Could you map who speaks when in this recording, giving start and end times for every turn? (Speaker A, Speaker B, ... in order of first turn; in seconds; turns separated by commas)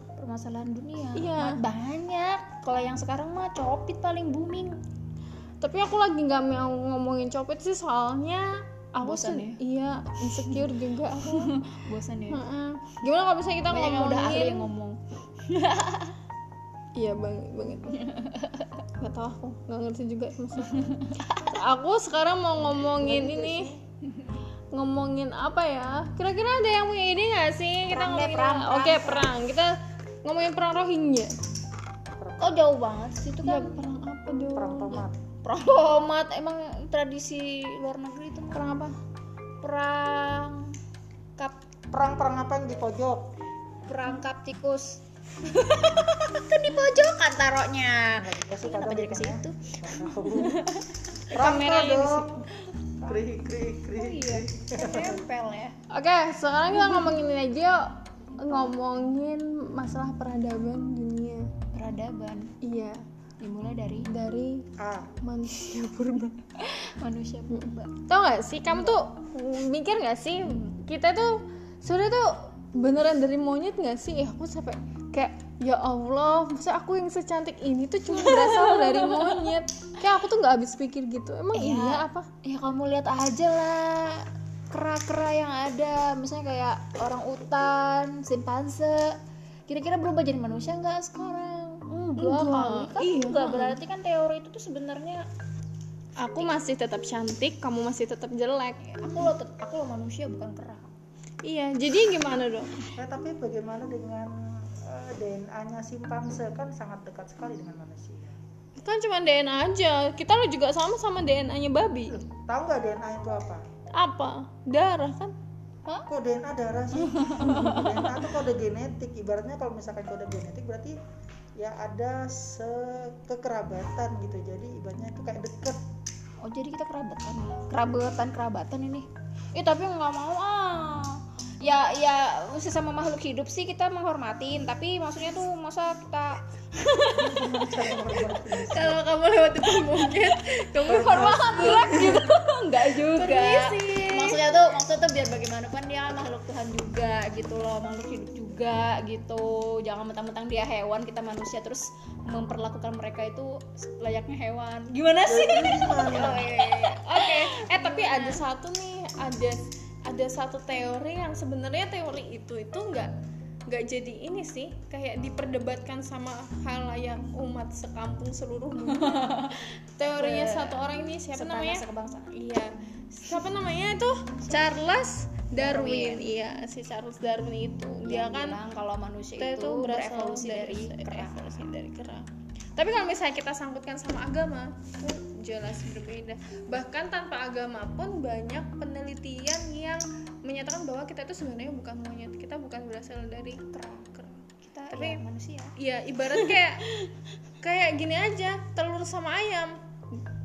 Speaker A: 0.2-4.8, Speaker B: 1.2-1.6, Speaker B: 5.6-11.5, Speaker A: 9.0-9.6, Speaker A: 11.2-12.4, Speaker B: 12.3-14.7, Speaker A: 13.7-16.2, Speaker B: 17.0-18.0, Speaker A: 18.0-18.7, Speaker B: 19.0-20.9, Speaker A: 20.7-21.6, Speaker B: 21.5-23.7, Speaker C: 22.7-23.8, Speaker A: 24.1-24.4, Speaker B: 24.7-31.3, Speaker A: 27.9-29.3, Speaker C: 32.2-32.6, Speaker A: 32.4-33.8, Speaker B: 33.4-35.0, Speaker C: 34.5-35.2, Speaker A: 35.4-38.6, Speaker B: 38.5-39.0, Speaker A: 39.6-40.7, Speaker C: 41.9-43.3, Speaker A: 43.9-52.5, Speaker C: 48.2-50.6, Speaker C: 51.3-52.5, Speaker B: 51.4-51.7, Speaker C: 53.0-55.2, Speaker A: 53.9-55.8, Speaker B: 55.9-61.5, Speaker A: 58.4-58.7, Speaker A: 61.7-62.5, Speaker B: 62.6-63.0, Speaker A: 63.4-64.1, Speaker B: 64.1-64.7, Speaker C: 64.8-65.1, Speaker B: 65.2-66.5, Speaker A: 66.9-67.9, Speaker B: 67.5-82.3, Speaker A: 78.1-79.3, Speaker A: 81.5-89.2, Speaker A: 89.7-95.2, Speaker B: 91.9-93.8, Speaker B: 96.2-98.8, Speaker A: 96.2-96.5, Speaker A: 98.8-100.9, Speaker B: 101.4-102.9, Speaker C: 103.0-108.4, Speaker B: 108.8-112.2, Speaker C: 112.1-113.7, Speaker B: 113.9-115.3, Speaker C: 116.1-121.0, Speaker A: 117.0-118.1, Speaker C: 121.6-125.8, Speaker A: 126.4-158.4, Speaker C: 137.1-139.0, Speaker B: 138.6-142.4, Speaker C: 140.9-141.8, Speaker B: 142.9-144.4, Speaker C: 155.3-156.4, Speaker B: 156.1-163.1, Speaker B: 163.7-171.8, Speaker A: 168.9-172.4, Speaker B: 172.3-178.6, Speaker A: 174.4-174.7, Speaker A: 175.6-176.3, Speaker A: 178.1-181.4, Speaker B: 179.4-193.7, Speaker A: 193.7-195.8, Speaker B: 194.9-195.2, Speaker B: 195.8-196.9, Speaker B: 197.6-199.8